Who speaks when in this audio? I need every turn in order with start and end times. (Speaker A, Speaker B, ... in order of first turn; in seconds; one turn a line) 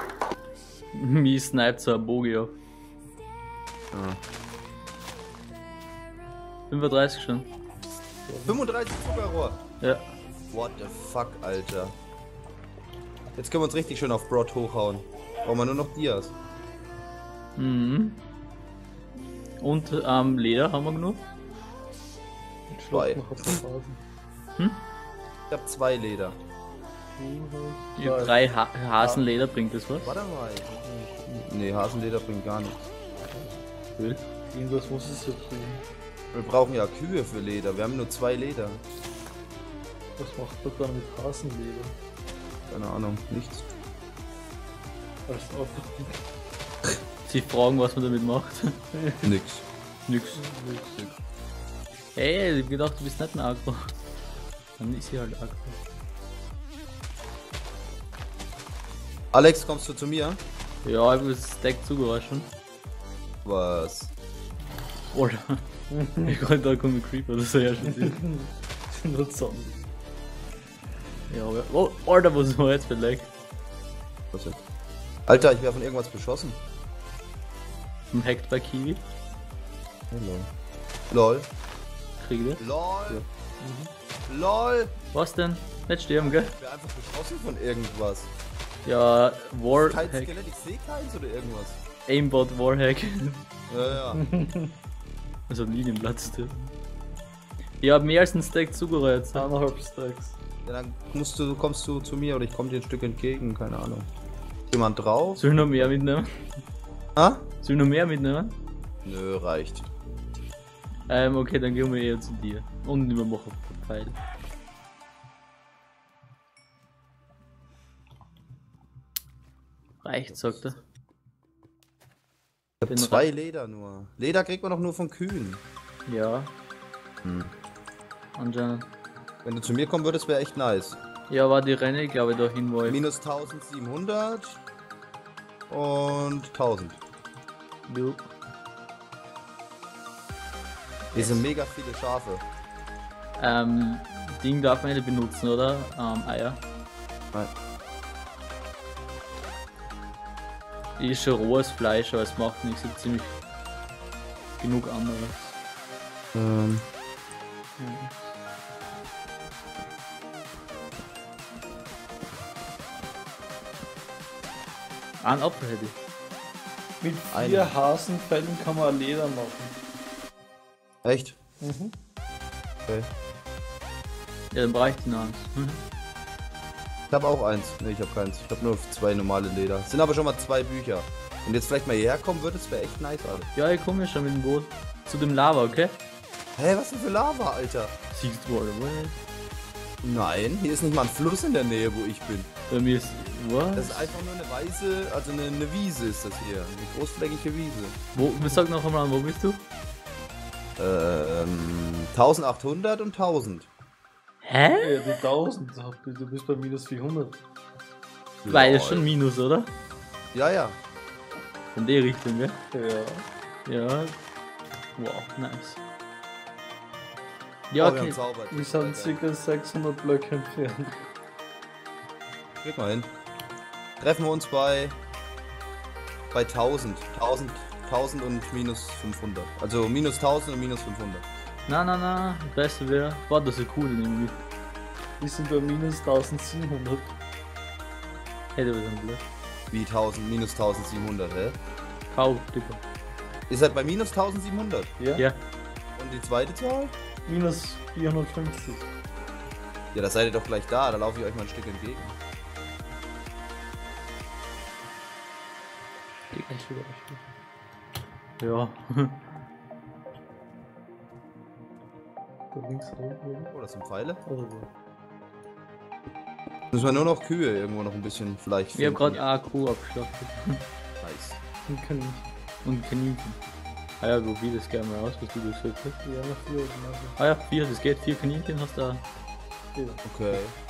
Speaker A: 0.9-2.5
Speaker B: 3.9-4.2
Speaker A: 6.7-7.5
Speaker C: 8.3-8.6
Speaker B: 8.5-9.6
Speaker A: 9.8-10.1
Speaker B: 10.5-11.9
Speaker B: 13.4-16.3
Speaker A: 17.6-18.2
Speaker A: 19.6-21.2
Speaker C: 22.7-24.0
Speaker B: 22.9-23.6
Speaker A: 24.6-24.8
Speaker B: 25.5-26.4
Speaker C: 27.2-28.4
Speaker A: 28.0-30.2
Speaker B: 30.0-32.9
Speaker C: 30.9-31.4
Speaker C: 33.3-33.6
Speaker A: 34.0-34.2
Speaker C: 34.5-35.8
Speaker B: 36.3-38.8
Speaker C: 40.2-41.9
Speaker B: 42.7-43.7
Speaker C: 45.3-46.2
Speaker A: 47.2-48.8
Speaker C: 49.0-49.3
Speaker B: 49.2-49.6
Speaker A: 50.1-50.5
Speaker C: 50.4-51.0
Speaker A: 52.1-53.9
Speaker A: 54.8-55.8
Speaker B: 59.3-60.4
Speaker A: 60.8-62.5
Speaker B: 63.4-64.1
Speaker A: 65.1-65.6
Speaker C: 65.9-66.4
Speaker A: 66.2-68.2
Speaker C: 67.9-69.8
Speaker A: 71.3-73.3
Speaker B: 74.3-74.6
Speaker B: 75.3-76.6
Speaker A: 78.1-79.0
Speaker B: 80.1-80.5
Speaker B: 81.1-81.5
Speaker A: 82.2-83.3
Speaker B: 82.6-83.2
Speaker C: 83.6-83.9
Speaker B: 84.3-85.0
Speaker A: 85.1-86.5
Speaker B: 86.2-88.3
Speaker A: 88.8-90.3
Speaker B: 89.7-91.8
Speaker A: 92.1-93.4
Speaker B: 93.7-94.2
Speaker C: 94.1-94.7
Speaker A: 95.5-96.7
Speaker A: 97.8-99.5
Speaker C: 99.3-100.4
Speaker B: 100.6-104.1
Speaker B: 104.7-105.9
Speaker A: 105.4-106.3
Speaker B: 107.2-107.5
Speaker A: 107.6-108.6
Speaker B: 109.0-109.9
Speaker A: 111.1-114.2
Speaker A: 120.0-120.8
Speaker B: 120.3-120.6
Speaker B: 122.8-125.6
Speaker A: 122.9-123.3
Speaker A: 126.1-126.5
Speaker B: 127.2-127.5
Speaker A: 128.4-128.9
Speaker B: 129.4-131.0
Speaker A: 131.3-133.0
Speaker B: 132.9-134.6
Speaker B: 135.7-137.0
Speaker A: 137.9-138.3
Speaker A: 141.1-141.5
Speaker B: 141.1-142.4
Speaker A: 143.4-146.6
Speaker A: 151.0-153.4
Speaker A: 154.6-155.6
Speaker B: 156.3-156.8
Speaker C: 157.8-158.3
Speaker A: 165.2-166.0
Speaker C: 167.0-169.8
Speaker B: 167.3-167.7
Speaker B: 171.0-171.4
Speaker C: 171.6-171.9
Speaker A: 174.5-175.8
Speaker B: 177.1-183.5
Speaker A: 183.5-186.0
Speaker B: 186.6-187.9
Speaker A: 188.1-189.2
Speaker B: 190.0-192.5
Speaker A: 192.7-194.1
Speaker B: 193.8-198.0
Speaker A: 198.2-199.6
Speaker B: 200.8-203.7
Speaker A: 204.4-205.1
Speaker C: 204.8-207.4
Speaker B: 208.4-209.1
Speaker A: 208.5-209.7
Speaker B: 210.3-210.8
Speaker A: 211.7-212.6
Speaker C: 212.7-213.2
Speaker A: 213.7-214.2
Speaker A: 215.0-215.8
Speaker A: 217.7-218.2
Speaker B: 217.8-219.2
Speaker C: 218.5-220.9
Speaker B: 222.6-223.1
Speaker B: 224.0-225.0
Speaker B: 226.3-231.3
Speaker A: 231.7-234.4
Speaker C: 235.2-237.2
Speaker A: 238.6-239.3
Speaker B: 239.7-241.6
Speaker A: 242.1-242.8
Speaker B: 243.5-244.9
Speaker C: 245.0-245.3
Speaker B: 246.0-246.9
Speaker C: 247.3-248.9
Speaker B: 249.9-252.2
Speaker A: 256.3-256.7
Speaker C: 256.5-257.2
Speaker A: 258.4-259.2
Speaker C: 262.5-263.5
Speaker B: 263.5-264.2
Speaker C: 264.3-264.7
Speaker B: 266.7-269.2
Speaker A: 268.8-270.7
Speaker B: 271.0-271.4
Speaker C: 271.7-272.3
Speaker A: 272.6-273.4
Speaker A: 274.0-276.0
Speaker C: 276.0-277.2
Speaker A: 277.2-279.0
Speaker C: 279.8-280.4
Speaker B: 280.1-280.5